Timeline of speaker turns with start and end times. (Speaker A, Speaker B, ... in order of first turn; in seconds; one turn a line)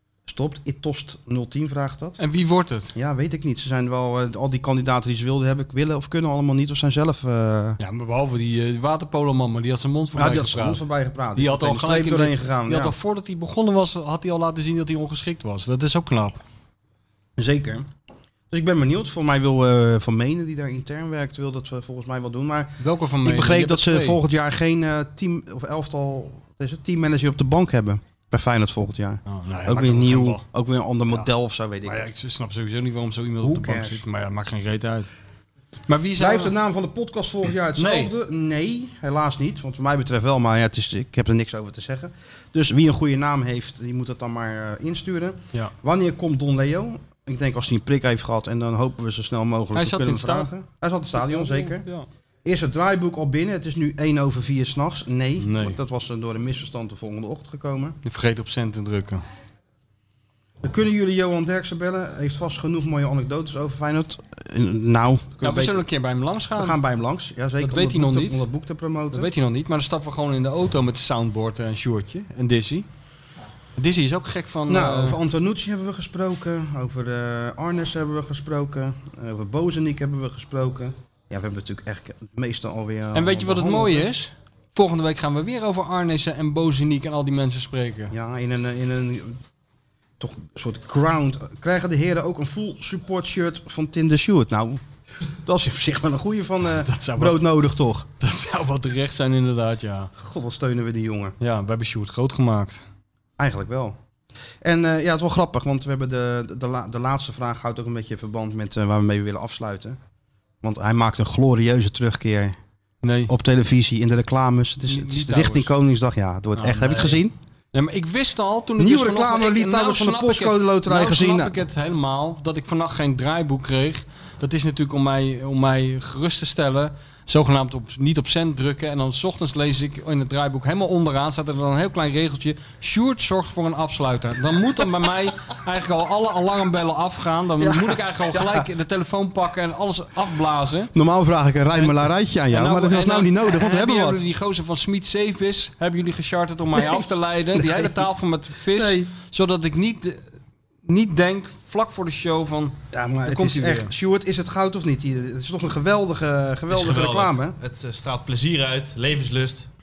Speaker A: 0.3-2.2
Speaker B: 2.2-2.9
Speaker A: 3.0-7.8
Speaker B: 7.8-10.8
Speaker A: 10.2-13.0
Speaker B: 11.3-16.4
Speaker A: 17.4-17.9
Speaker A: 18.5-32.1
Speaker B: 22.8-24.2
Speaker B: 29.3-30.4
Speaker B: 31.9-35.1
Speaker A: 33.4-34.0
Speaker B: 35.9-36.5
Speaker A: 36.2-51.9
Speaker B: 37.8-38.1
Speaker B: 49.7-50.5
Speaker B: 51.1-52.1
Speaker A: 52.5-58.0
Speaker B: 55.4-55.8
Speaker B: 58.0-59.2
Speaker A: 60.6-65.9
Speaker B: 65.4-66.8
Speaker A: 66.5-69.3
Speaker B: 67.6-68.5
Speaker B: 69.1-72.9
Speaker B: 73.8-75.2
Speaker A: 74.7-84.1
Speaker B: 83.1-88.1
Speaker A: 88.1-89.4
Speaker A: 90.2-94.8
Speaker A: 95.5-98.1
Speaker B: 96.7-97.5
Speaker B: 98.2-100.1
Speaker A: 100.2-101.3
Speaker B: 101.4-102.8
Speaker A: 103.4-104.0
Speaker A: 104.6-110.0
Speaker A: 110.6-112.6
Speaker B: 113.0-113.3
Speaker A: 113.3-117.3
Speaker B: 114.9-115.7
Speaker B: 116.6-140.9
Speaker A: 118.8-121.6
Speaker A: 137.6-138.7
Speaker A: 140.9-144.2
Speaker B: 141.8-150.3
Speaker A: 146.8-147.9
Speaker A: 148.7-149.1
Speaker B: 150.9-153.9
Speaker A: 152.9-157.6
Speaker C: 156.7-159.7